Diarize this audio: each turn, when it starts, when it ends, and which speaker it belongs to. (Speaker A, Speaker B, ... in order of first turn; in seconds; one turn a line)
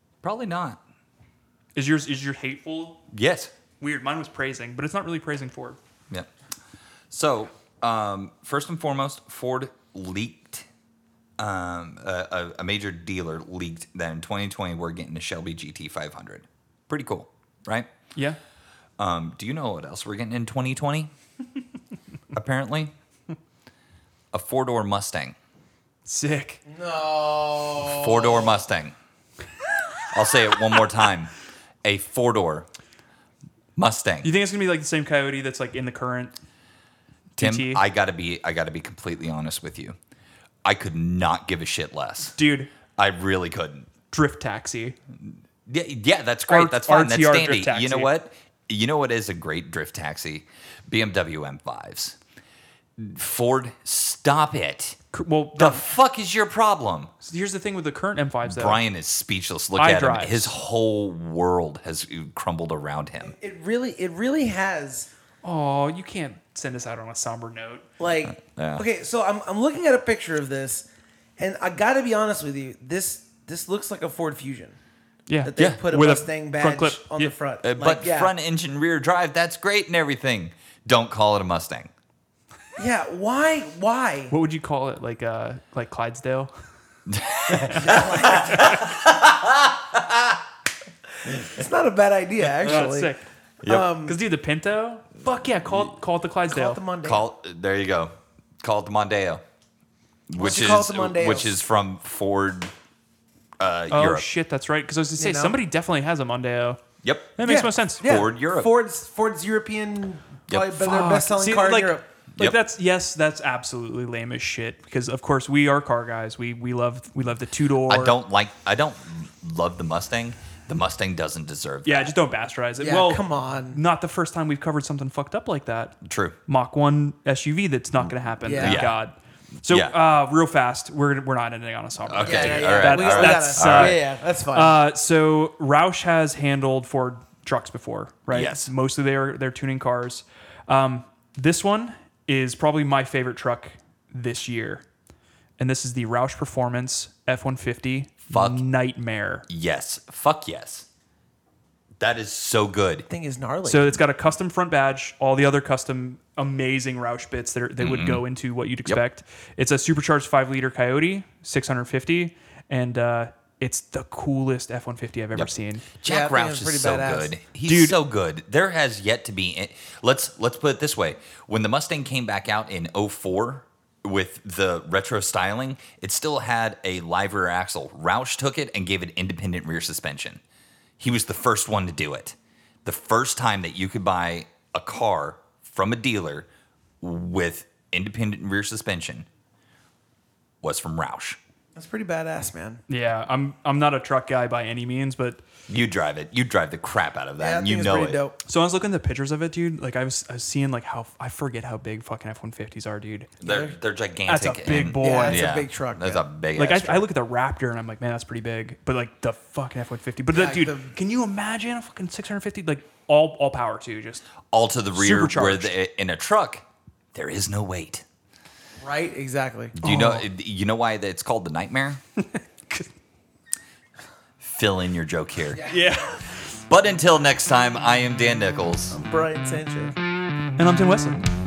Speaker A: 0.2-0.8
Speaker B: 1.7-3.0
Speaker A: 3.1-3.5
Speaker B: 3.8-5.8
Speaker A: 7.1-10.7
Speaker A: 11.4-17.9
Speaker A: 19.0-21.1
Speaker A: 22.3-22.9
Speaker A: 24.3-25.4
Speaker B: 26.0-26.6
Speaker C: 26.7-28.6
Speaker A: 27.8-28.9
Speaker A: 30.1-31.3
Speaker A: 31.8-32.7
Speaker A: 33.8-34.3
Speaker B: 34.2-36.3
Speaker B: 37.4-37.8
Speaker A: 37.4-40.0
Speaker A: 40.6-42.4
Speaker B: 42.3-42.7
Speaker A: 42.9-43.9
Speaker B: 44.1-45.0
Speaker A: 45.1-52.2
Speaker B: 46.5-48.1
Speaker A: 53.0-55.0
Speaker B: 55.1-55.9
Speaker A: 55.5-57.1
Speaker B: 57.2-58.8
Speaker A: 58.5-63.3
Speaker B: 59.8-60.5
Speaker C: 63.2-65.1
Speaker B: 65.4-67.8
Speaker C: 68.0-70.8
Speaker A: 68.4-68.8
Speaker C: 71.4-74.8
Speaker B: 75.3-77.3
Speaker C: 75.4-78.3
Speaker A: 77.6-81.9
Speaker C: 82.8-84.3
Speaker B: 84.3-86.5
Speaker A: 87.1-90.4
Speaker B: 87.5-88.8
Speaker C: 87.7-88.8
Speaker C: 91.2-93.1
Speaker B: 92.4-96.8
Speaker C: 93.6-94.2
Speaker C: 96.5-97.2
Speaker A: 97.0-99.4
Speaker A: 100.3-102.7
Speaker C: 100.3-101.5
Speaker A: 103.6-104.3
Speaker B: 103.9-106.8
Speaker C: 105.2-105.6
Speaker A: 107.0-107.4
Speaker B: 107.4-108.0
Speaker C: 107.4-112.1
Speaker A: 108.0-108.7
Speaker A: 110.5-110.9
Speaker B: 110.8-118.1
Speaker A: 117.9-122.1
Speaker B: 121.8-144.8
Speaker C: 122.8-123.8
Speaker A: 126.0-126.4
Speaker C: 128.4-128.9
Speaker A: 128.6-129.0
Speaker A: 129.7-129.9
Speaker A: 132.1-134.0
Speaker C: 132.2-134.8
Speaker A: 138.3-138.7
Speaker B: 145.6-149.5
Speaker A: 148.3-148.6
Speaker A: 149.5-150.9
Speaker A: 152.0-153.1
Speaker C: 153.1-154.0
Speaker B: 153.6-165.8
Speaker A: 157.8-158.2
Speaker A: 165.3-180.4
Speaker C: 166.0-167.3
Speaker B: 167.6-168.0
Speaker A: 181.0-186.5
Speaker A: 187.0-189.3
Speaker A: 190.6-191.4
Speaker C: 191.7-192.8
Speaker B: 192.9-195.4
Speaker A: 195.7-198.2
Speaker C: 197.4-198.4
Speaker B: 198.4-203.3
Speaker A: 203.4-207.1
Speaker C: 203.4-203.7
Speaker B: 204.3-205.4
Speaker C: 205.0-206.2
Speaker B: 206.5-214.2
Speaker C: 210.3-210.8
Speaker A: 214.5-218.0
Speaker B: 214.9-215.7
Speaker C: 218.8-219.8
Speaker A: 219.8-222.0
Speaker B: 219.8-220.2
Speaker B: 222.4-222.9
Speaker A: 224.4-225.6
Speaker C: 225.5-226.0
Speaker B: 225.7-226.4
Speaker A: 226.7-229.0
Speaker C: 228.9-229.9
Speaker B: 230.6-231.2